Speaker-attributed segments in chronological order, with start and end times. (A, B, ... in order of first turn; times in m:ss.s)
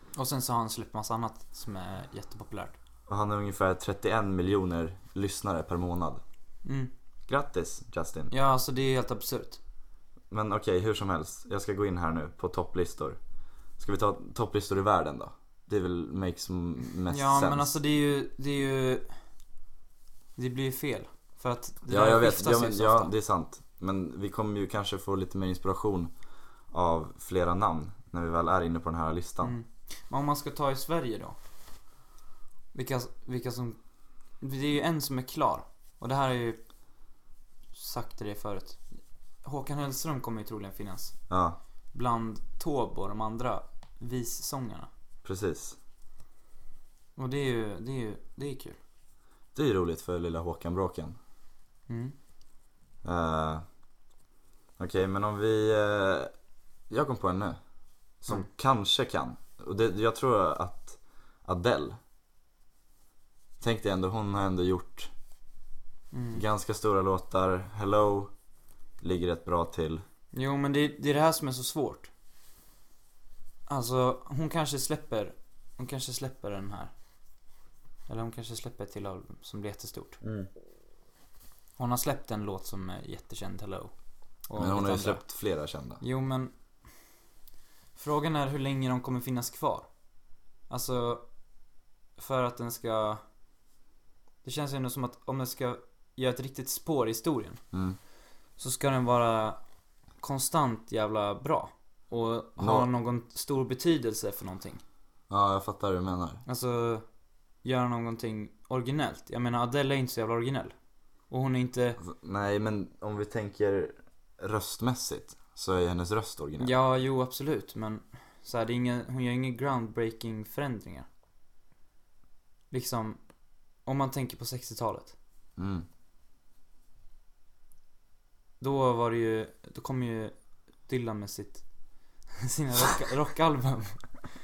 0:00.2-0:02.8 A
0:03.1-0:06.2 B
0:06.6-0:06.9 A
0:07.3-0:08.3 B
0:08.3-0:09.6 A
0:10.3-0:13.2 B
0:13.8-0:17.7 B
0:17.1-0:19.1 A
0:20.4-0:23.1 A
0:21.9-0:26.1 B
0:26.7-0:29.6 B
0:29.4-0:31.4 A
0:32.7-0:33.8 A
0:34.4-0:36.6 A
0:37.7-0:38.8 A
0:39.4-0:41.2 A
0:41.3-0:41.6 B
0:41.9-0:44.9 A
0:45.2-0:45.8 B
0:47.2-0:48.8 A
0:49.5-0:51.2 B
0:51.9-0:52.1 A
0:53.0-0:53.6 B
0:54.8-0:56.3 B
0:56.9-0:57.6 B
0:58.2-1:02.0 B
1:03.6-1:05.1 B
1:06.1-1:06.4 A
1:06.3-1:08.3 B
1:09.0-1:10.0 B
1:10.3-1:12.1 A
1:13.7-1:16.9 A
1:18.1-1:20.2 A
1:20.2-1:20.5 B
1:21.8-1:23.9 A
1:24.5-1:25.2 A
1:24.6-1:26.0 B
1:26.0-1:26.5 A
1:28.0-1:29.9 A
1:30.7-1:31.2 A
1:32.2-1:33.2 A
1:34.4-1:37.6 A
1:37.7-1:38.0 B
1:38.6-1:39.6 A
1:40.2-1:44.8 A
1:42.6-1:42.9 B
1:45.3-1:46.4 B
1:46.4-1:47.0 A
1:47.6-1:50.7 A
1:51.3-1:52.0 A
1:52.0-1:56.7 B
1:56.6-2:01.1 A
2:02.7-2:03.2 A
2:03.8-2:05.1 A
2:05.6-2:05.8 B
2:08.6-2:10.3 A
2:10.9-2:11.6 A
2:12.4-2:14.1 A